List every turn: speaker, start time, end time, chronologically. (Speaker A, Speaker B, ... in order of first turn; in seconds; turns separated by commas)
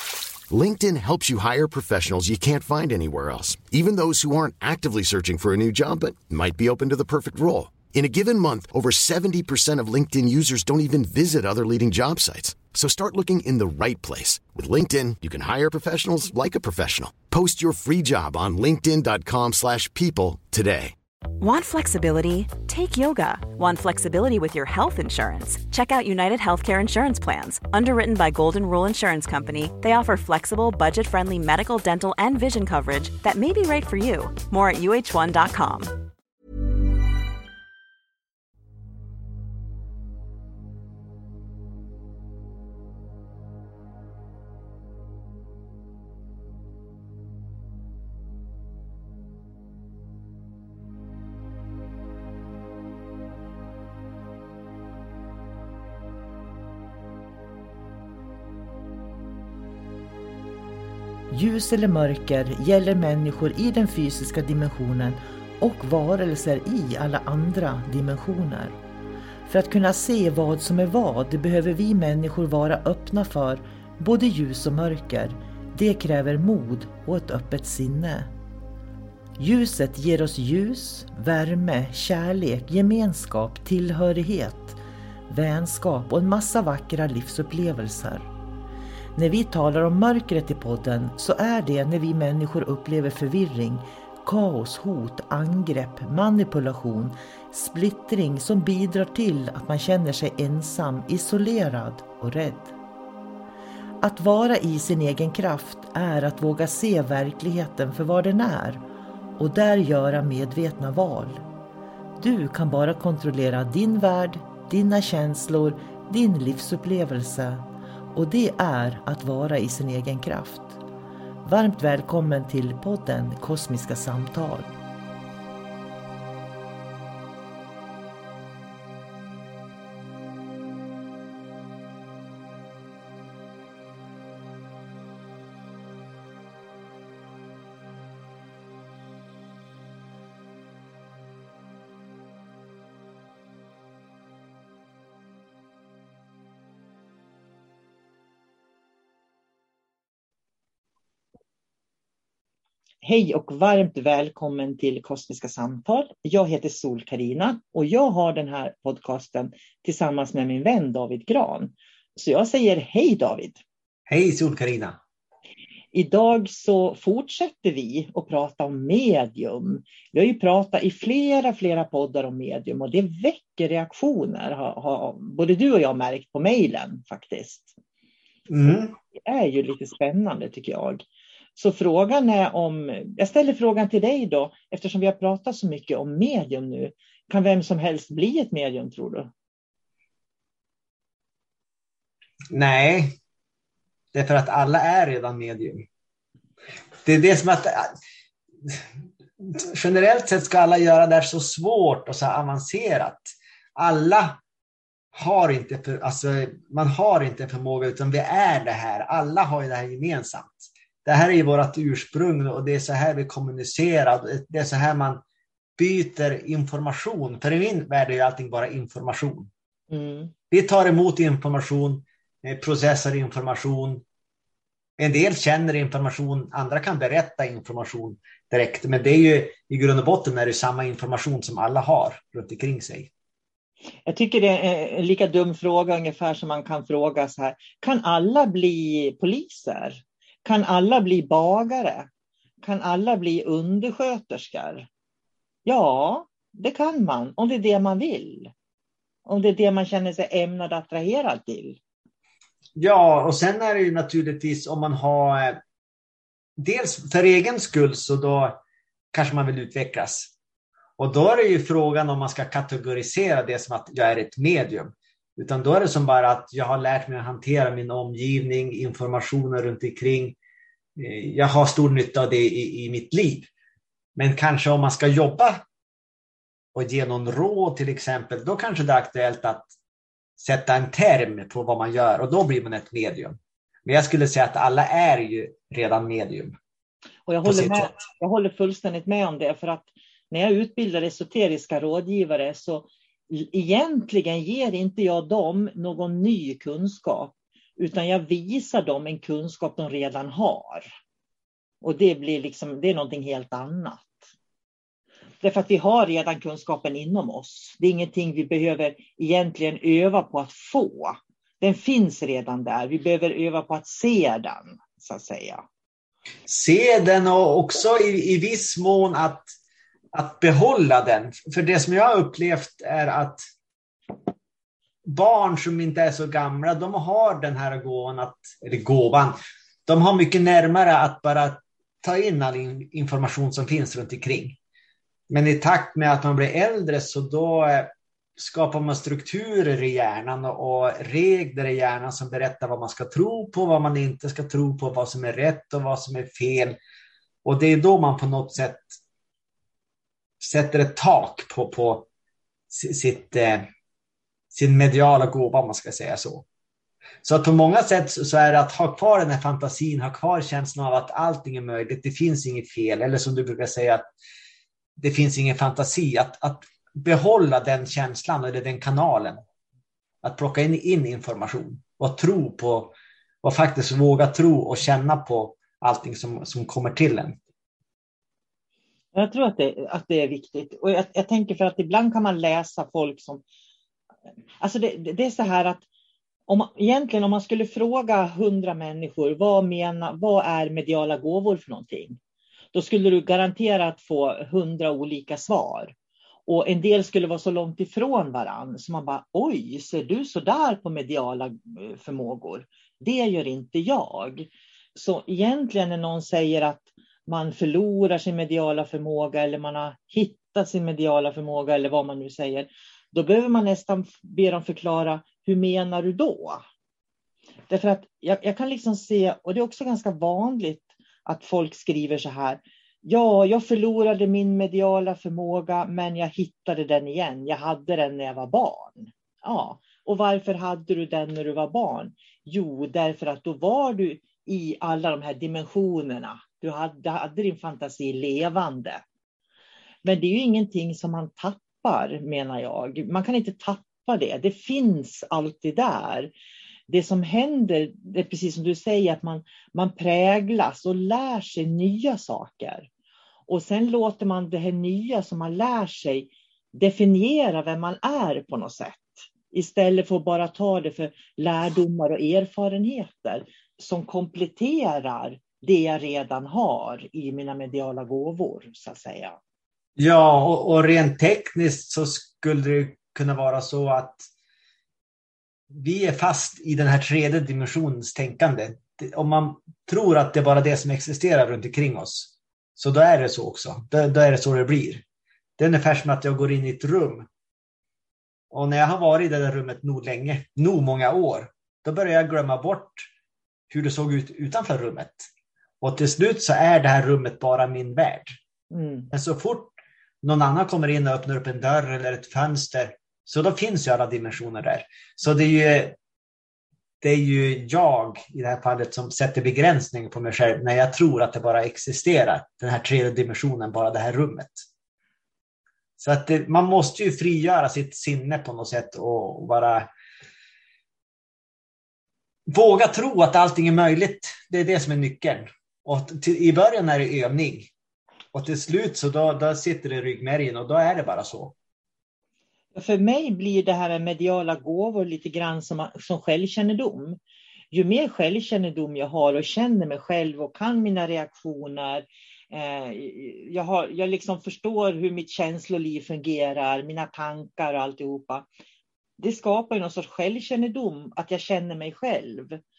Speaker A: 0.5-20.9, Speaker B: 21.4-36.0, Speaker C: 61.3-68.8, Speaker C: 69.5-78.3, Speaker C: 79.4-84.8, Speaker C: 85.3-88.3, Speaker C: 89.2-102.7, Speaker C: 104.0-108.8, Speaker C: 109.4-111.4, Speaker C: 112.2-117.6, Speaker C: 118.1-120.8, Speaker C: 121.4-124.7, Speaker C: 153.0-163.6, Speaker D: 164.1-165.0, Speaker C: 165.9-177.8, Speaker D: 178.5-178.9, Speaker C: 179.1-181.0, Speaker C: 181.6-189.3, Speaker D: 192.5-193.2, Speaker D: 194.1-195.8, Speaker D: 197.0-197.9, Speaker D: 199.4-204.4, Speaker D: 205.1-215.2, Speaker D: 215.8-219.5, Speaker C: 219.9-220.3, Speaker D: 220.5-224.0, Speaker D: 225.0-233.1, Speaker C: 234.1-242.1, Speaker C: 242.6-244.9, Speaker C: 245.6-248.5, Speaker C: 249.2-251.8, Speaker D: 252.8-255.6, Speaker D: 256.6-258.6, Speaker D: 259.1-260.3, Speaker D: 261.0-270.4, Speaker D: 270.9-273.5, Speaker D: 274.1-275.6, Speaker D: 276.7-279.7, Speaker D: 280.4-286.6, Speaker C: 287.3-300.9, Speaker D: 287.4-287.9, Speaker C: 301.8-304.3, Speaker C: 305.4-315.6, Speaker D: 316.5-319.5, Speaker D: 320.1-323.4, Speaker D: 325.0-334.6, Speaker D: 335.3-346.8, Speaker D: 347.4-349.0, Speaker D: 350.4-352.1, Speaker D: 352.7-353.7, Speaker D: 354.5-356.4, Speaker D: 357.2-364.1, Speaker D: 365.0-369.4, Speaker D: 370.2-377.4, Speaker C: 379.1-383.4, Speaker C: 384.6-385.9, Speaker C: 386.5-392.2, Speaker C: 392.7-395.9, Speaker C: 396.5-416.6, Speaker C: 417.7-439.0, Speaker C: 440.0-446.3, Speaker C: 446.9-452.9, Speaker C: 453.5-469.4, Speaker D: 470.0-474.3, Speaker D: 475.7-485.0, Speaker D: 485.6-487.3, Speaker D: 488.5-493.1, Speaker D: 493.7-495.2, Speaker D: 495.8-498.4, Speaker C: 498.7-499.1, Speaker D: 499.1-506.0, Speaker D: 507.0-514.6, Speaker D: 516.0-519.9, Speaker D: 522.5-527.7, Speaker D: 528.3-531.5, Speaker C: 532.7-537.2, Speaker C: 537.7-548.5, Speaker C: 549.2-552.6